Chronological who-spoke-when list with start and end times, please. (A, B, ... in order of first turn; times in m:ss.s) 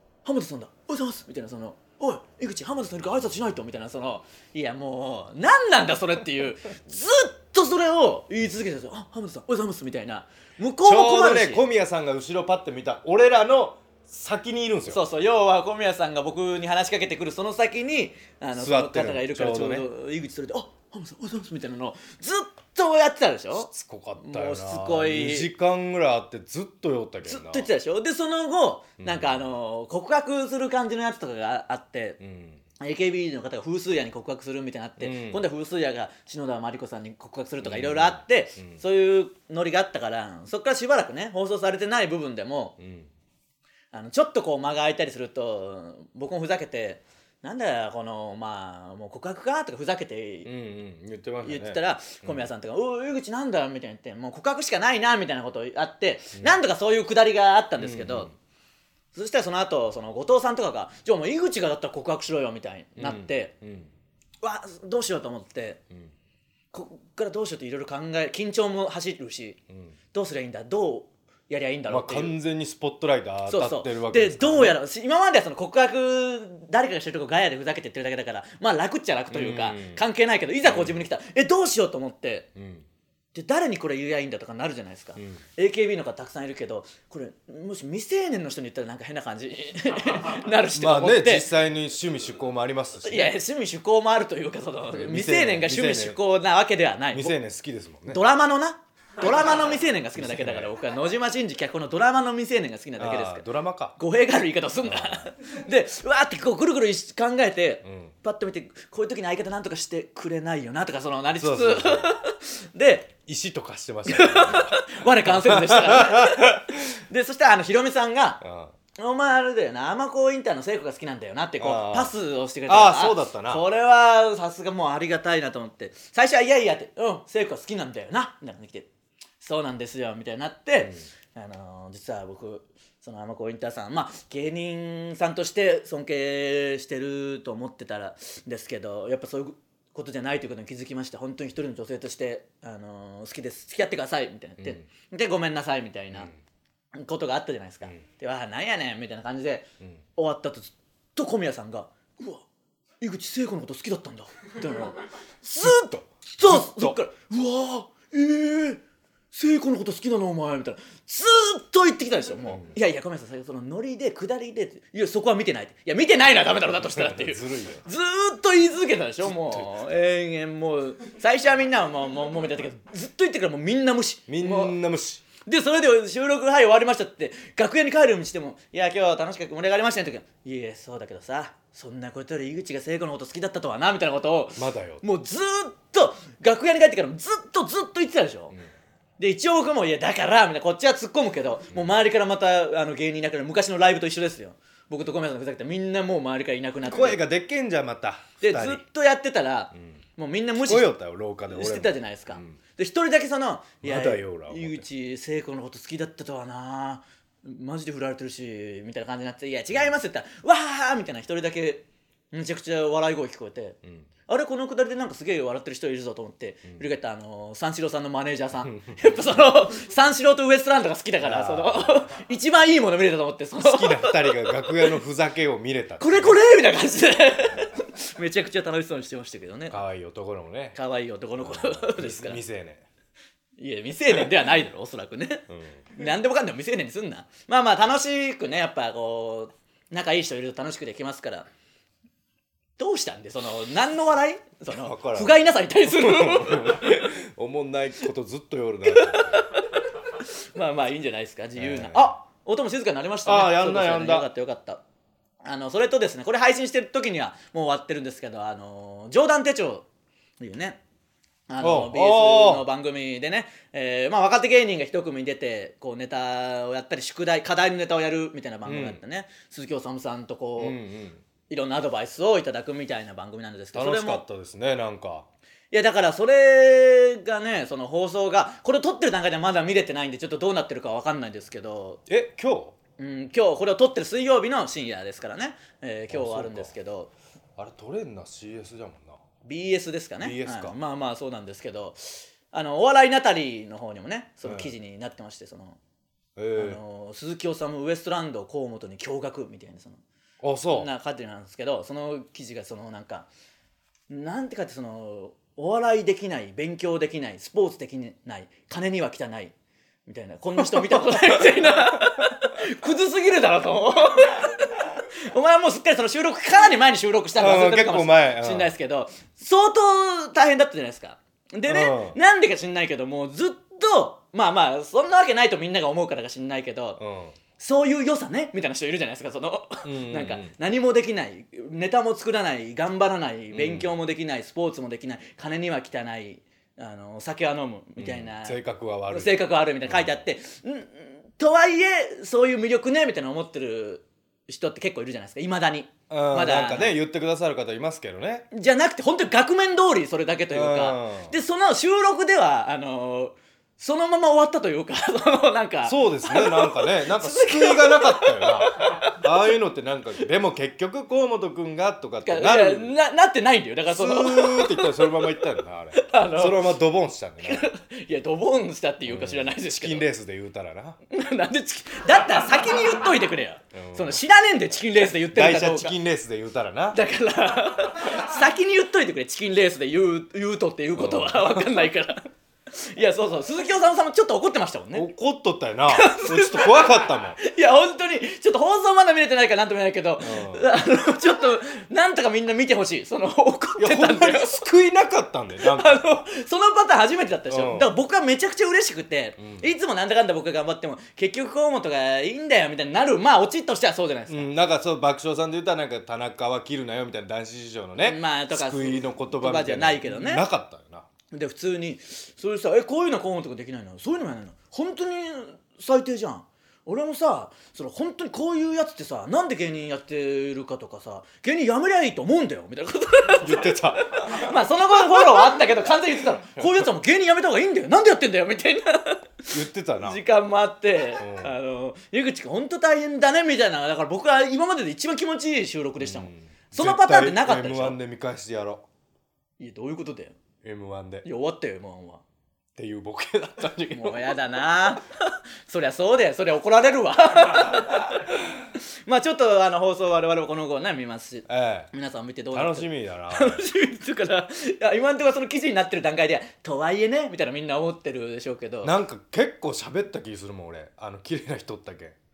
0:00.2-0:11.6 A
0:10.8-0:15.0 B
0:14.9-0:25.5 A
0:18.6-0:19.9 B
0:23.6-0:27.7 B
0:27.2-0:32.2 A
0:29.0-0:29.4 B
0:32.2-0:32.6 B
0:32.8-0:42.8 A
0:35.0-0:35.4 B
0:37.6-0:38.8 B
0:42.8-0:43.1 B
0:43.9-0:50.5 A
0:50.4-0:52.5 B
0:51.4-0:58.3 A
0:57.8-0:58.3 B
0:59.1-1:03.6 A
1:03.0-1:03.9 B
1:04.4-1:05.8 A
1:06.7-1:09.6 A
1:10.1-1:12.4 A
1:11.9-1:14.8 B
1:13.5-1:22.5 A
1:19.3-1:20.0 B
1:20.6-1:21.0 B
1:22.6-1:22.9 B
1:23.3-1:31.5 A
1:30.7-1:33.4 B
1:33.0-1:37.4 A
1:34.9-1:36.2 B
1:37.1-1:38.2 B
1:38.1-1:53.1 A
1:40.1-1:40.7 B
1:43.0-1:44.0 B
1:44.8-1:45.3 B
1:47.8-1:48.1 B
1:51.4-1:52.1 B
1:53.3-1:56.8 B
1:54.1-1:58.4 A
1:58.4-1:58.7 B
1:59.0-2:08.9 A
2:01.6-2:02.1 B
2:02.7-2:03.6 B
2:09.4-2:26.3 A
2:24.6-2:24.8 B
2:27.0-2:32.4 A
2:33.0-2:38.8 A
2:35.6-2:37.0 B
2:39.3-2:54.8 A
2:42.4-2:42.7 B
2:46.7-2:47.8 B
2:49.2-2:49.8 B
2:54.3-2:55.2 B
2:55.4-3:08.6 A
3:04.6-3:05.0 B
3:09.2-3:17.2 A
3:16.9-3:18.8 B
3:18.4-3:20.9 A
3:20.6-3:22.6 B
3:21.5-3:44.9 A
3:23.8-3:24.9 B
3:33.8-3:34.1 B
3:38.6-3:39.5 B
3:41.2-3:42.0 B
3:43.6-3:46.4 B
3:46.0-3:49.8 A
3:49.7-3:50.8 B
3:50.8-3:52.4 A
3:51.4-3:52.8 B
3:53.6-4:01.5 A
3:55.5-3:55.8 B
4:02.8-4:07.1 A
4:04.7-4:09.4 B
4:08.9-4:14.8 A
4:11.6-4:12.1 B
4:13.2-4:14.3 B
4:15.4-4:19.9 A
4:20.4-4:20.8 A
4:21.5-4:30.8 A
4:21.6-4:22.6 B
4:28.6-4:29.0 B
4:30.6-4:31.2 B
4:31.5-4:34.2 A
4:33.7-4:35.3 B
4:35.7-4:42.0 A
4:42.1-4:42.8 B
4:43.0-4:47.1 A
4:46.1-4:46.7 B
4:47.6-4:49.2 B
4:49.4-4:55.8 A
4:50.2-4:50.8 B
4:54.4-4:54.7 B
4:56.4-4:56.8 B
4:56.6-5:00.0 A
5:00.4-5:00.9 B
5:00.7-5:03.3 A
5:04.1-5:09.5 A
5:10.1-5:27.0 A
5:10.6-5:11.7 B
5:17.4-5:18.7 B
5:21.7-5:22.2 B
5:27.0-5:27.4 B
5:27.6-5:47.0 A
5:29.8-5:30.5 B
5:33.5-5:33.9 B
5:38.0-5:39.3 B
5:39.8-5:40.1 B
5:46.1-5:48.5 B
5:48.5-5:59.2 A
5:50.5-5:51.3 B
5:55.8-6:02.9 B
6:02.2-6:05.2 A
6:03.9-6:07.7 B
6:06.0-6:06.8 A
6:07.4-6:10.1 A
6:09.1-6:11.0 B
6:11.1-6:16.0 A
6:13.7-6:14.2 B
6:15.2-6:17.0 B
6:16.9-6:25.1 A
6:21.0-6:21.6 B
6:24.9-6:27.4 B
6:25.9-6:34.6 A
6:30.2-6:30.6 B
6:33.8-6:36.0 B
6:35.6-6:44.5 A
6:37.5-6:37.9 B
6:39.4-6:39.7 B
6:44.3-6:51.1 B
6:48.0-6:50.5 A
6:51.3-7:18.0 A
7:03.4-7:04.5 B
7:05.2-7:05.6 B
7:06.6-7:06.9 B
7:09.5-7:10.2 B
7:11.2-7:11.5 B
7:16.0-7:18.8 B
7:19.6-7:20.4 A
7:20.6-7:21.2 B
7:21.2-7:22.2 A
7:22.8-7:24.4 B
7:23.9-7:39.0 A
7:31.5-7:31.9 B
7:32.5-7:33.6 B
7:38.8-7:42.2 B